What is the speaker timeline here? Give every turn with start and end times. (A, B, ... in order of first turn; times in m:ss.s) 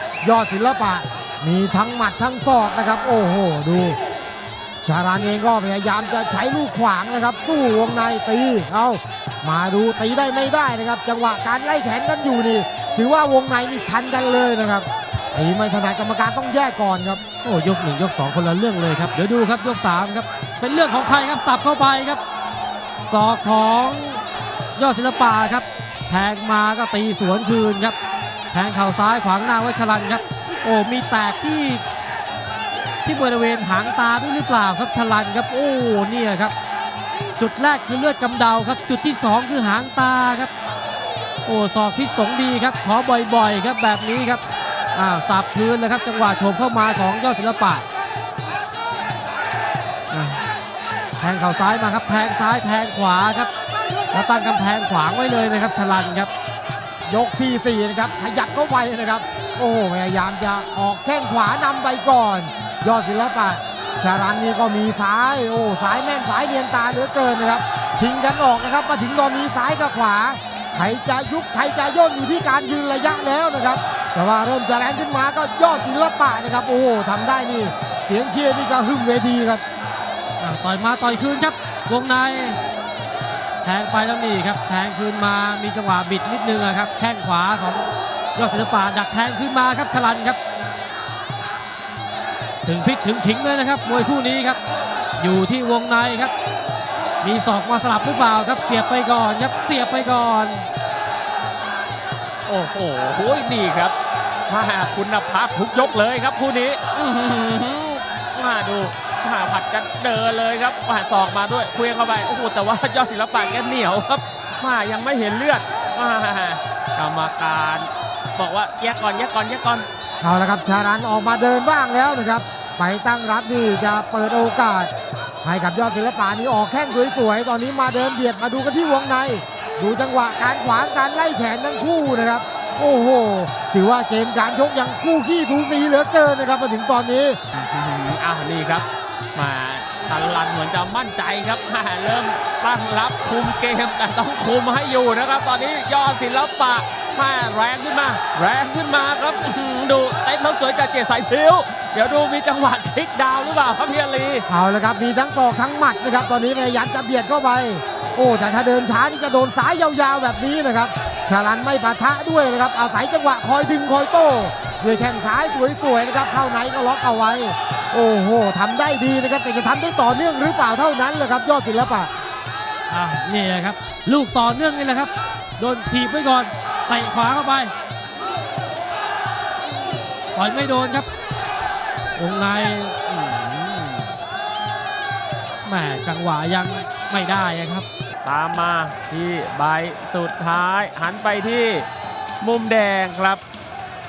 0:00.2-0:04.0 A
0:04.8-0:17.2 A
0:17.4-0:22.2 B
0:23.1-0:24.2 B
0:24.8-0:28.0 B
0:28.5-0:31.8 B
0:33.0-0:36.5 B
0:37.4-0:40.5 B
0:41.4-0:44.4 B
0:45.0-0:47.9 B
0:50.1-0:50.4 B
0:51.2-0:53.5 B
0:54.1-0:56.3 B
0:57.1-1:19.6 A
1:20.4-1:22.6 B
1:23.6-1:30.4 B
1:32.6-1:34.6 B
1:35.2-1:36.3 B
1:37.2-1:40.7 B
1:42.5-1:44.0 C
1:44.5-1:59.8 C
2:00.2-2:04.9 A
2:05.4-2:17.4 A
2:17.5-2:34.5 C
2:34.5-2:52.1 A
2:52.9-2:57.7 B
3:00.4-3:01.1 B
3:02.2-3:04.1 B
3:05.6-3:07.9 B
3:08.2-3:11.9 C
3:12.4-3:13.4 C